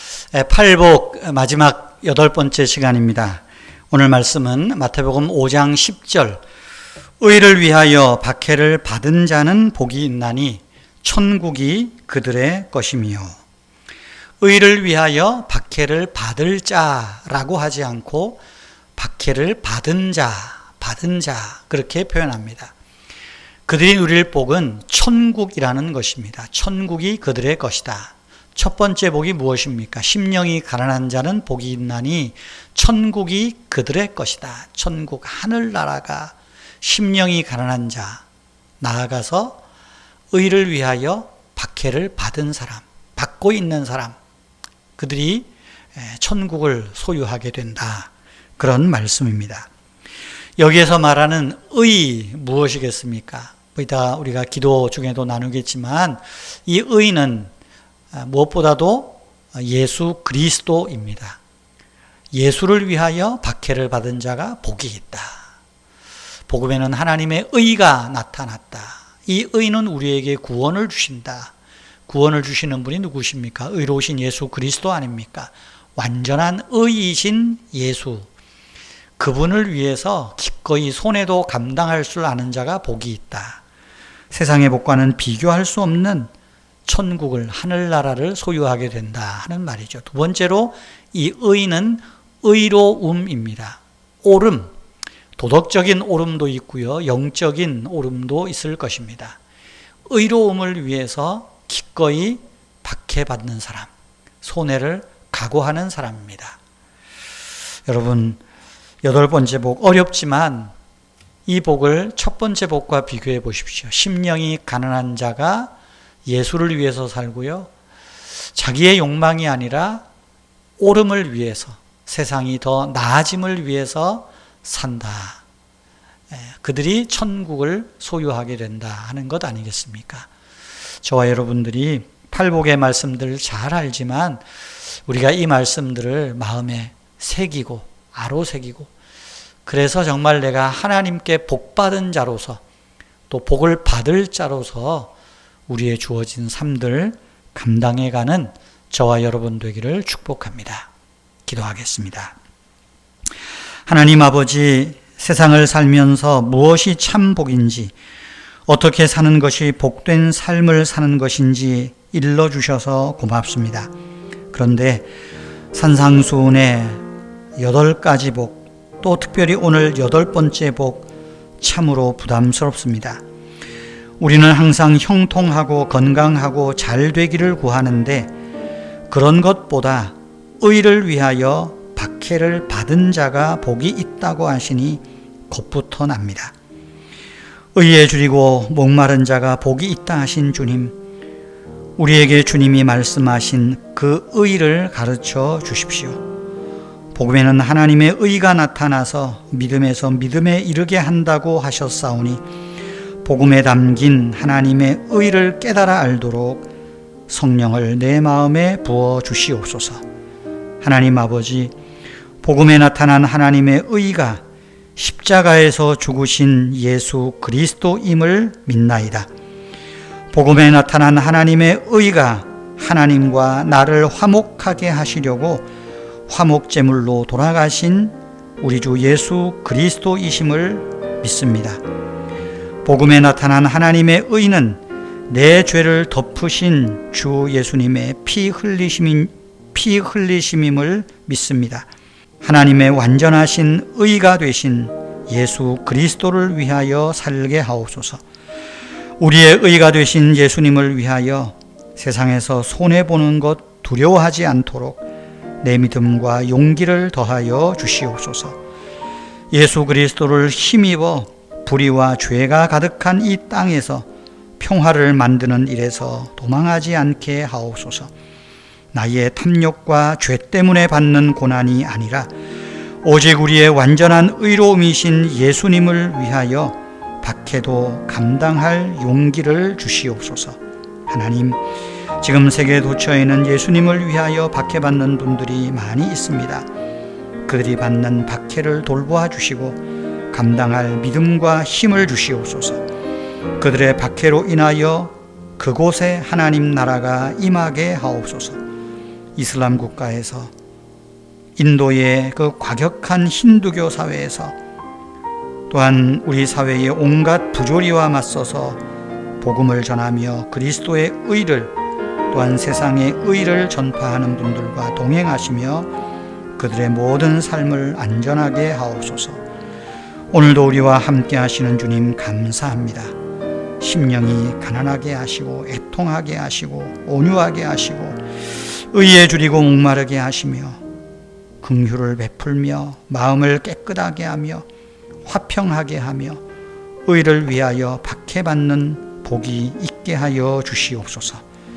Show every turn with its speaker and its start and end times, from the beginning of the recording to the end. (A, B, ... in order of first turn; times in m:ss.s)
0:00.3-0:06.4 A
0:07.2-0:13.4 A
0:14.4-0:18.4 A
0:19.0-0:22.7 A
0:23.7-0:38.2 A
0:38.8-0:39.6 A
0:40.3-0:44.2 A
0:45.0-0:49.7 A
0:50.6-0:57.5 A
0:58.1-1:01.4 A
1:02.3-1:05.4 A
1:06.5-1:11.5 A
1:12.1-1:18.3 A
1:19.2-1:23.6 A
1:24.3-1:26.3 A
1:26.9-1:34.7 A
1:35.4-1:39.4 A
1:40.1-1:43.9 A
1:44.4-1:46.6 A
1:47.9-1:48.4 A
1:49.0-1:50.7 A
1:51.5-1:55.7 A
1:56.2-1:57.7 A
1:58.6-2:00.0 A
2:00.8-2:05.4 A
2:06.3-2:10.3 A
2:11.0-2:14.4 A
2:15.1-2:18.9 A
2:19.7-2:22.6 A
2:23.3-2:25.1 A
2:25.7-2:30.9 A
2:31.5-2:32.4 A
2:33.9-2:37.9 A
2:38.7-2:43.9 A
2:44.5-2:45.0 A
2:45.7-2:47.0 A
2:47.6-2:51.1 A
2:51.6-2:53.2 A
2:54.2-2:58.3 A
2:59.1-3:06.5 A
3:07.8-3:10.9 A
3:12.0-3:16.2 A
3:17.2-3:22.4 A
3:23.2-3:26.7 A
3:27.3-3:30.0 A
3:30.8-3:31.7 A
3:32.4-3:34.4 A
3:35.0-3:39.3 A
3:40.3-3:45.7 A
3:46.3-3:51.8 A
3:52.8-4:01.9 A
4:02.4-4:08.2 A
4:09.2-4:15.0 A
4:15.6-4:18.6 A
4:19.5-4:24.1 A
4:24.6-4:28.1 A
4:28.9-4:32.3 A
4:33.0-4:41.6 A
4:42.2-4:46.6 A
4:47.5-4:49.8 A
4:50.3-4:52.8 A
4:53.6-4:58.6 A
4:59.4-5:00.5 A
5:01.6-5:04.6 A
5:05.7-5:08.8 A
5:09.4-5:11.7 A
5:12.3-5:15.9 A
5:16.6-5:19.4 A
5:20.3-5:23.1 A
5:23.8-5:30.8 A
5:31.6-5:34.6 A
5:35.2-5:36.4 A
5:37.1-5:41.4 A